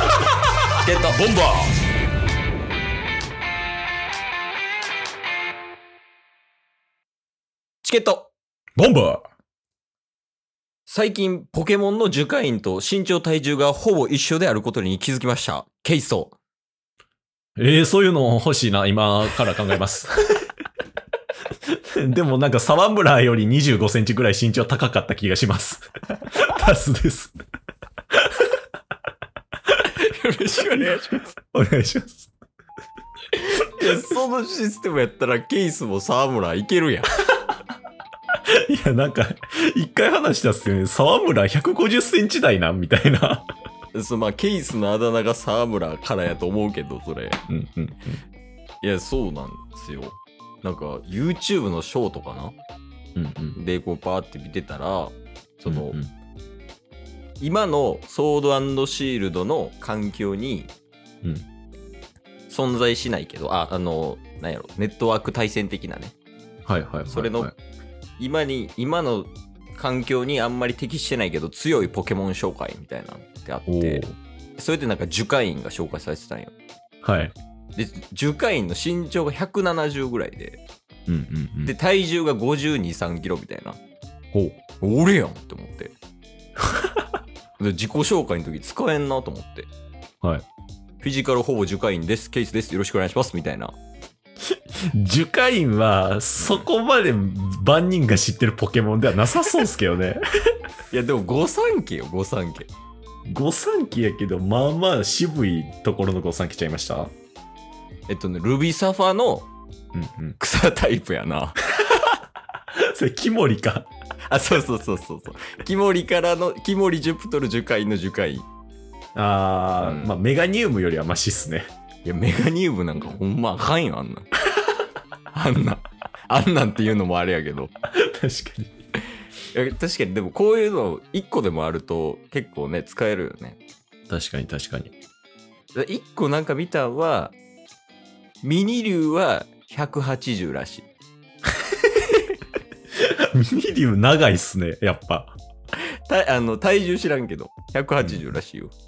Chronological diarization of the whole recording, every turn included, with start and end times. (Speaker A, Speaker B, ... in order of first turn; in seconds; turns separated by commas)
Speaker A: 0.8-1.3, Speaker B: 1.3-1.5, Speaker A: 7.8-8.3, Speaker B: 8.8-9.2, Speaker A: 10.9-16.4, Speaker B: 17.6-20.4, Speaker B: 21.7-27.3, Speaker A: 30.0-31.4, Speaker B: 30.8-32.3, Speaker A: 33.6-37.1, Speaker B: 38.5-43.5, Speaker A: 44.0-47.4, Speaker B: 47.5-48.2, Speaker A: 48.8-52.6, Speaker B: 53.1-53.6, Speaker A: 53.6-56.0, Speaker B: 55.7-56.1, Speaker A: 57.4-60.7, Speaker A: 62.5-66.1, Speaker B: 66.7-67.5, Speaker A: 67.1-67.5, Speaker A: 68.2-74.0, Speaker B: 73.7-74.2, Speaker A: 74.6-76.5, Speaker B: 77.0-77.3, Speaker A: 77.8-80.6, Speaker B: 81.1-81.7, Speaker A: 81.7-83.8, Speaker B: 84.3-84.6, Speaker A: 84.8-85.9, Speaker B: 86.7-87.0, Speaker A: 87.6-89.7, Speaker A: 91.0-93.8, Speaker B: 94.6-100.2, Speaker A: 96.4-96.7, Speaker A: 100.9-102.7, Speaker B: 103.3-107.1, Speaker A: 108.1-109.5, Speaker B: 109.9-110.4, Speaker A: 110.4-111.6, Speaker B: 112.8-113.9, Speaker A: 114.3-118.5, Speaker B: 119.2-121.7, Speaker A: 119.8-120.1, Speaker A: 122.0-124.3, Speaker A: 125.3-127.7, Speaker B: 128.0-128.7, Speaker A: 129.5-133.6, Speaker B: 134.1-134.9, Speaker A: 135.8-137.4, Speaker A: 138.4-140.9, Speaker B: 143.0-145.4, Speaker A: 146.1-148.7